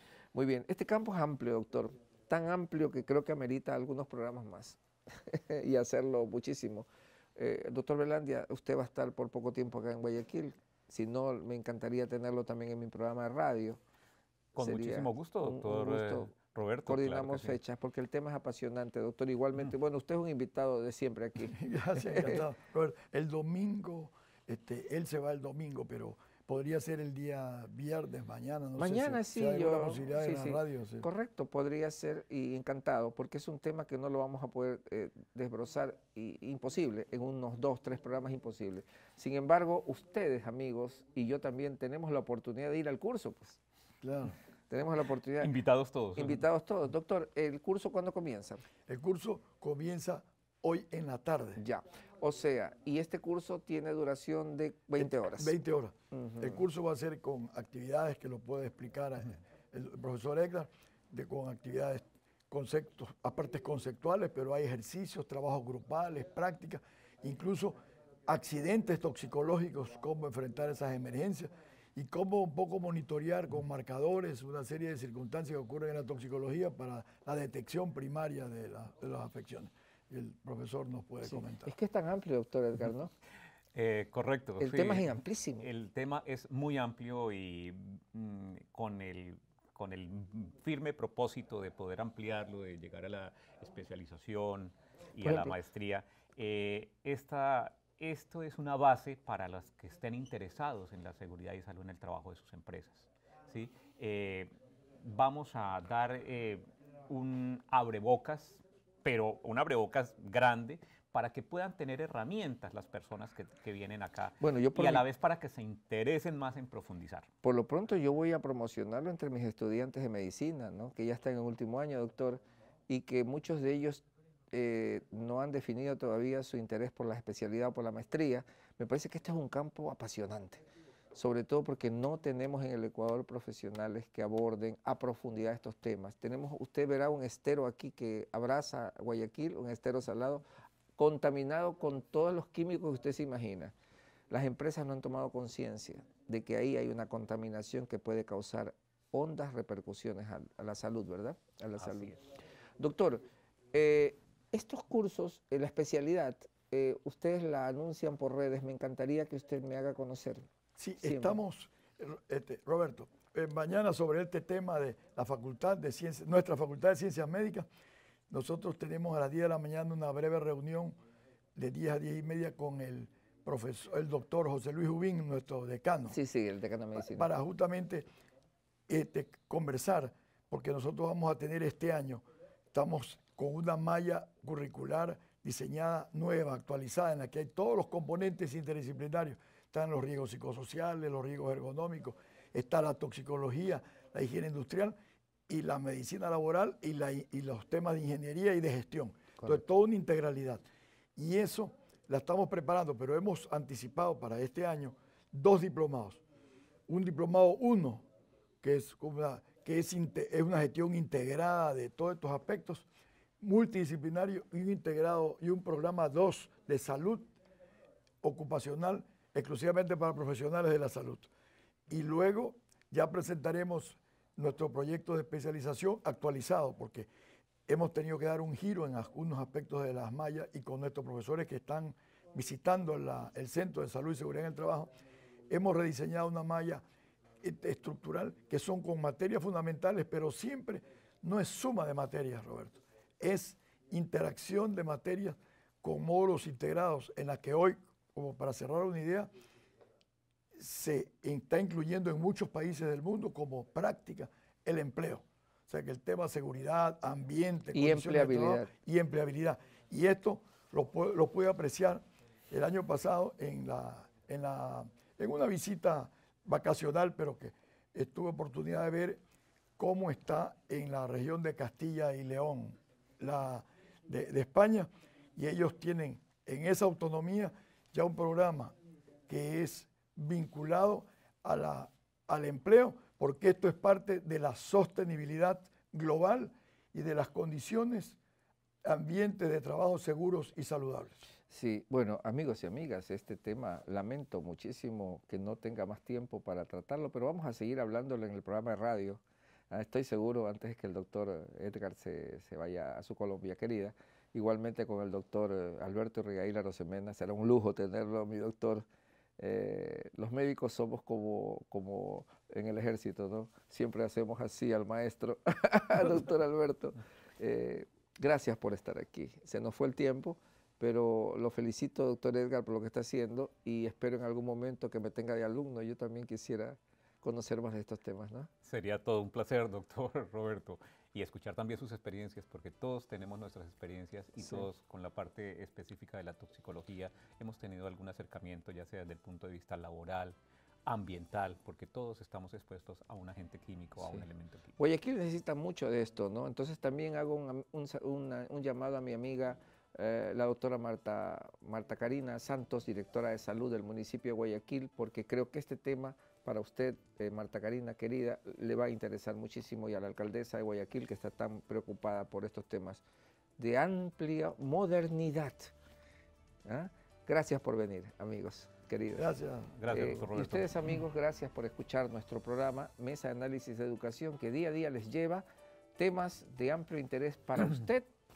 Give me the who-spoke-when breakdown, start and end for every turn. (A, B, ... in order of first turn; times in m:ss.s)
0:00.3-0:13.8 A
0:14.6-0:16.3 A
0:14.6-0:17.6 B
0:16.8-0:22.4 A
0:21.5-0:31.1 C
0:28.8-0:43.6 A
0:44.0-0:44.4 C
0:44.7-0:45.5 A
0:45.4-0:46.4 B
0:46.2-0:48.6 A
0:48.9-0:51.6 C
0:51.6-0:55.6 A
0:55.0-1:07.8 C
0:56.1-0:56.6 A
1:08.3-1:21.7 C
1:21.2-1:23.1 A
1:23.7-1:44.5 B
1:24.6-1:25.7 A
1:35.2-1:35.6 A
1:45.0-1:57.3 B
1:54.4-1:55.0 A
1:57.4-2:20.4 A
2:21.0-2:23.8 A
2:24.3-2:32.2 A
2:31.8-2:32.1 B
2:32.8-2:40.5 A
2:40.8-2:47.7 C
2:41.0-2:41.4 A
2:48.3-2:51.0 C
2:51.6-2:56.2 C
2:56.1-2:57.3 A
2:57.0-2:58.0 C
2:58.9-3:15.0 C
3:15.5-3:20.6 C
3:21.2-3:26.2 C
3:26.9-3:28.0 C
3:28.6-3:32.9 C
3:33.4-3:37.3 C
3:38.2-3:41.3 C
3:41.9-3:47.1 C
3:47.7-3:54.9 C
3:55.5-3:56.8 C
3:57.4-4:09.3 C
4:10.6-4:29.2 C
4:17.7-4:18.7 A
4:29.8-4:38.7 C
4:39.3-4:48.2 C
4:48.8-4:51.2 C
4:51.5-5:08.9 A
5:09.4-5:28.5 A
5:28.6-5:44.8 B
5:44.8-6:03.0 A
6:03.6-6:05.7 A
6:06.7-6:09.3 A
6:09.2-6:09.8 C
6:09.8-6:10.8 B
6:09.9-6:15.4 A
6:16.0-6:18.1 A